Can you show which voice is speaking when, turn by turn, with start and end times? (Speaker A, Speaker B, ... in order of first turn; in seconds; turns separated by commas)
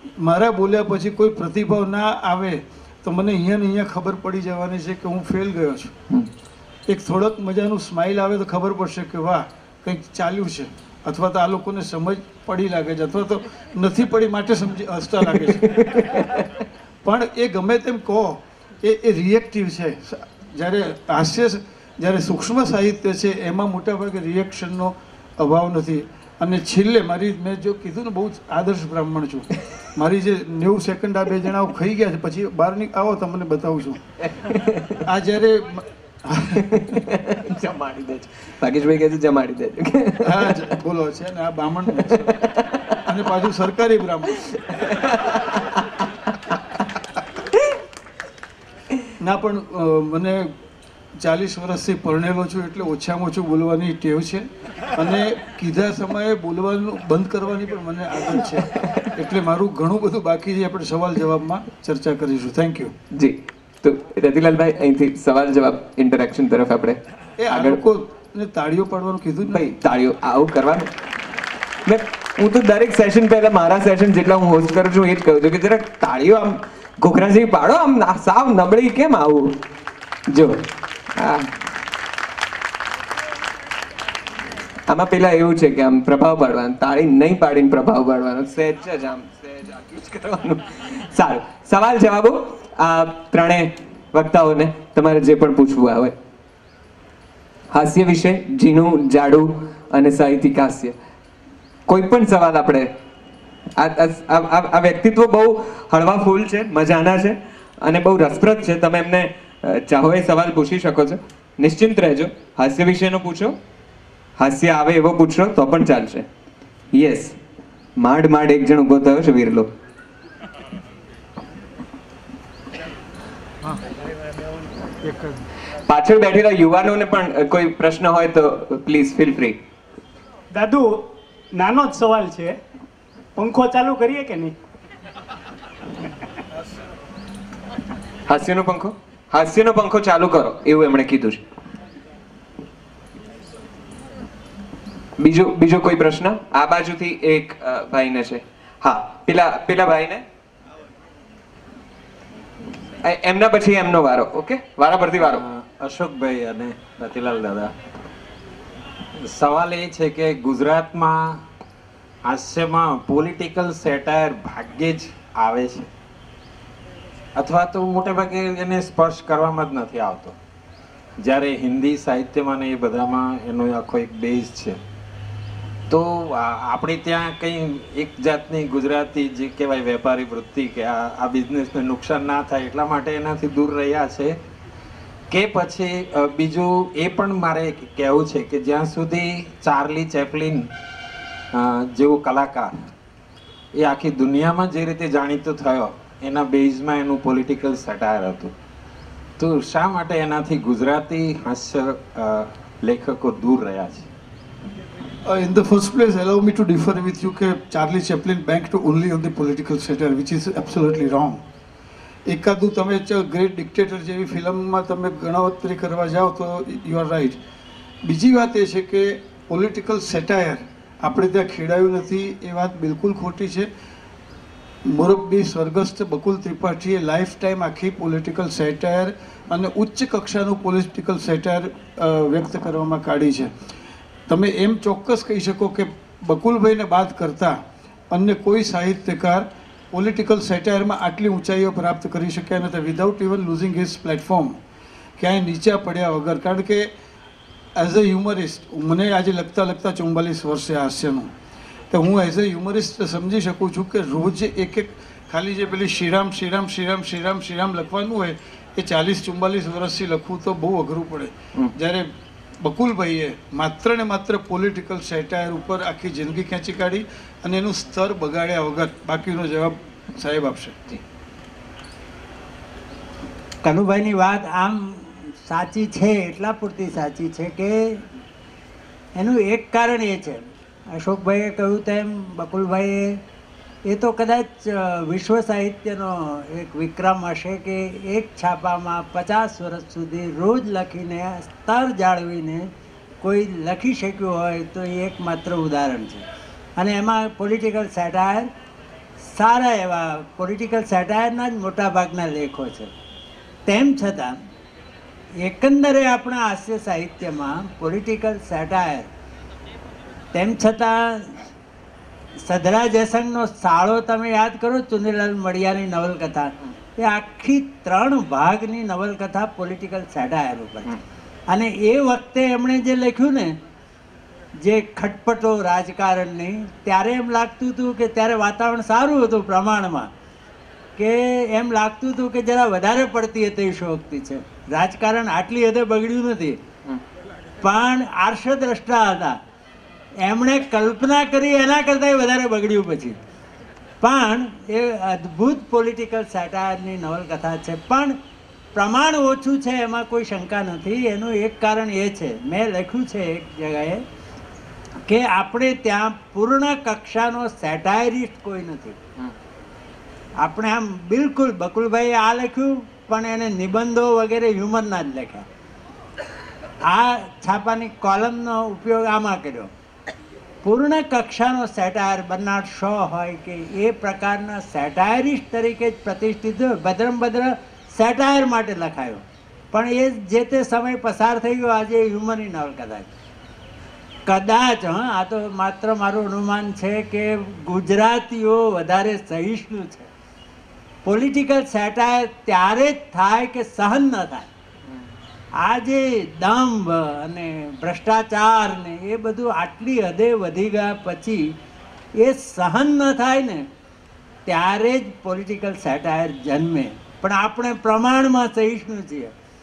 Speaker A: 0.2-5.9, Speaker A: 6.9-15.8, Speaker B: 15.7-16.4, Speaker A: 17.0-34.0, Speaker B: 34.3-35.0, Speaker A: 35.0-36.9, Speaker B: 36.7-40.6, Speaker A: 40.2-44.4, Speaker B: 42.2-42.8, Speaker B: 44.7-45.6, Speaker A: 49.2-50.5, Speaker A: 51.2-62.9, Speaker B: 63.1-67.0, Speaker A: 67.4-69.7, Speaker B: 67.5-67.8, Speaker B: 69.5-70.9, Speaker B: 71.8-79.6, Speaker B: 80.3-81.5, Speaker B: 84.9-96.1, Speaker B: 97.7-100.9, Speaker B: 101.9-102.9, Speaker B: 103.8-113.5, Speaker B: 114.4-116.2, Speaker B: 116.9-117.3, Speaker B: 118.0-119.7, Speaker A: 125.0-125.4, Speaker B: 125.9-129.6, Speaker C: 130.5-132.6, Speaker C: 133.3-134.5, Speaker B: 138.3-141.4, Speaker B: 145.2-150.2, Speaker B: 153.0-155.4, Speaker D: 155.2-157.7, Speaker D: 159.2-161.3, Speaker D: 162.3-165.9, Speaker D: 167.4-170.3, Speaker D: 171.2-174.8, Speaker D: 175.9-184.3, Speaker D: 185.3-190.7, Speaker D: 191.5-192.8, Speaker D: 193.8-198.5, Speaker D: 199.4-204.1, Speaker A: 205.2-211.4, Speaker A: 212.3-217.4, Speaker A: 218.0-223.7, Speaker A: 224.8-233.5, Speaker A: 234.3-237.6, Speaker A: 238.1-244.6, Speaker A: 245.2-246.9, Speaker A: 247.8-251.3, Speaker A: 251.9-262.1, Speaker A: 262.6-270.8, Speaker E: 273.6-278.0, Speaker E: 279.2-283.2, Speaker E: 283.9-292.7, Speaker E: 293.2-296.2, Speaker E: 296.8-298.5, Speaker E: 299.2-302.9, Speaker E: 303.7-304.4, Speaker E: 305.4-309.1, Speaker E: 310.3-311.4, Speaker E: 312.4-320.9, Speaker E: 321.5-323.6, Speaker E: 324.6-330.1, Speaker E: 331.0-336.6, Speaker E: 337.6-339.4, Speaker E: 340.2-343.2, Speaker E: 344.0-348.1, Speaker E: 348.7-354.0, Speaker E: 355.1-358.9, Speaker E: 360.4-365.4, Speaker E: 366.9-369.7, Speaker E: 370.6-383.1, Speaker E: 384.3-390.1, Speaker E: 391.0-394.5, Speaker E: 395.6-401.5, Speaker E: 402.2-403.6, Speaker E: 404.4-409.3